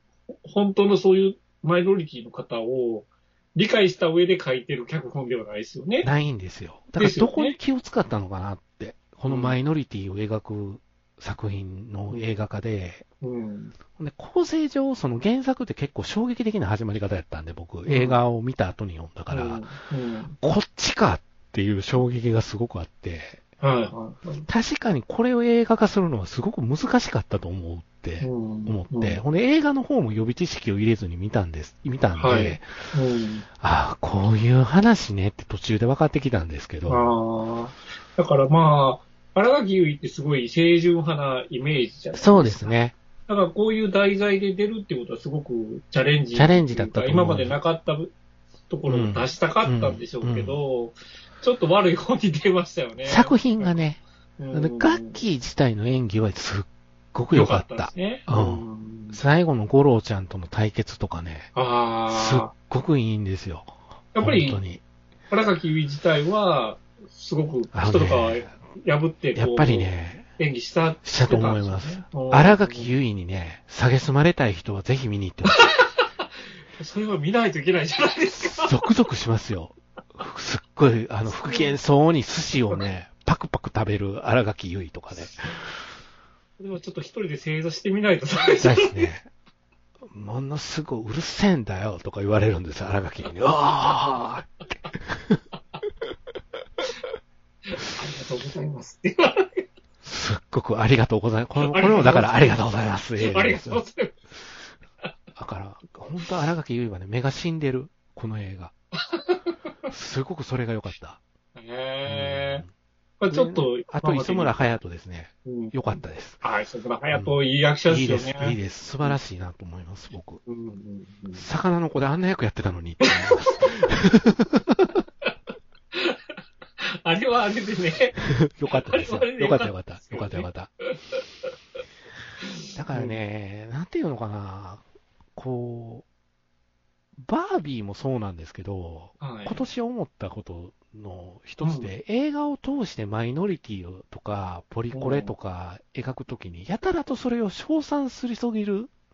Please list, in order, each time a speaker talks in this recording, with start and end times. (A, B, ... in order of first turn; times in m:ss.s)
0:00.4-0:06.1 A
0:06.0-0:13.0 B
0:07.0-0:07.6 A
0:09.3-0:09.6 A
0:13.2-0:13.7 A
0:14.0-0:19.6 B
0:17.8-0:18.2 A
0:19.3-0:20.4 A
0:20.4-0:23.4 B
0:23.6-0:24.4 A
0:24.4-0:32.7 B
0:28.2-0:29.2 A
0:32.2-0:33.4 A
0:33.6-0:37.1 B
0:36.9-0:42.8 A
0:42.1-0:42.9 B
0:43.3-0:48.1 A
0:46.3-0:47.5 B
0:48.7-0:53.7 A
0:48.9-0:50.6 B
0:53.0-0:54.0 B
0:54.4-0:55.2 A
0:54.5-1:01.5 B
0:57.3-0:59.2 A
1:01.5-1:02.5 A
1:02.1-1:04.8 B
1:04.1-1:04.6 A
1:05.3-1:12.9 A
1:07.7-1:08.5 B
1:09.3-1:10.3 B
1:11.0-1:15.7 B
1:15.6-1:16.2 A
1:16.8-1:18.7 A
1:18.4-1:25.7 B
1:21.3-1:21.8 A
1:26.6-1:29.1 A
1:28.6-1:29.3 B
1:30.1-1:34.5 B
1:35.0-1:35.4 B
1:37.7-1:39.6 A
1:40.0-1:43.8 B
1:41.6-1:42.6 A
1:43.2-1:44.2 A
1:45.4-1:48.7 B
1:49.1-1:49.5 A
1:49.9-1:51.2 B
1:51.5-1:52.6 A
1:52.0-1:52.7 B
1:53.2-1:54.7 A
1:53.3-1:56.4 B
1:55.4-1:55.7 A
1:56.4-1:59.2 A
1:57.1-1:57.4 B
1:57.9-2:00.4 B
2:00.4-2:01.4 A
2:01.3-2:04.9 B
2:03.2-2:03.7 A
2:05.9-2:11.2 A
2:08.3-2:10.7 B
2:12.4-2:13.2 A
2:12.7-2:14.8 B
2:15.3-2:16.0 B
2:17.2-2:28.9 B
2:19.2-2:19.6 A
2:21.6-2:21.9 A
2:24.9-2:25.3 A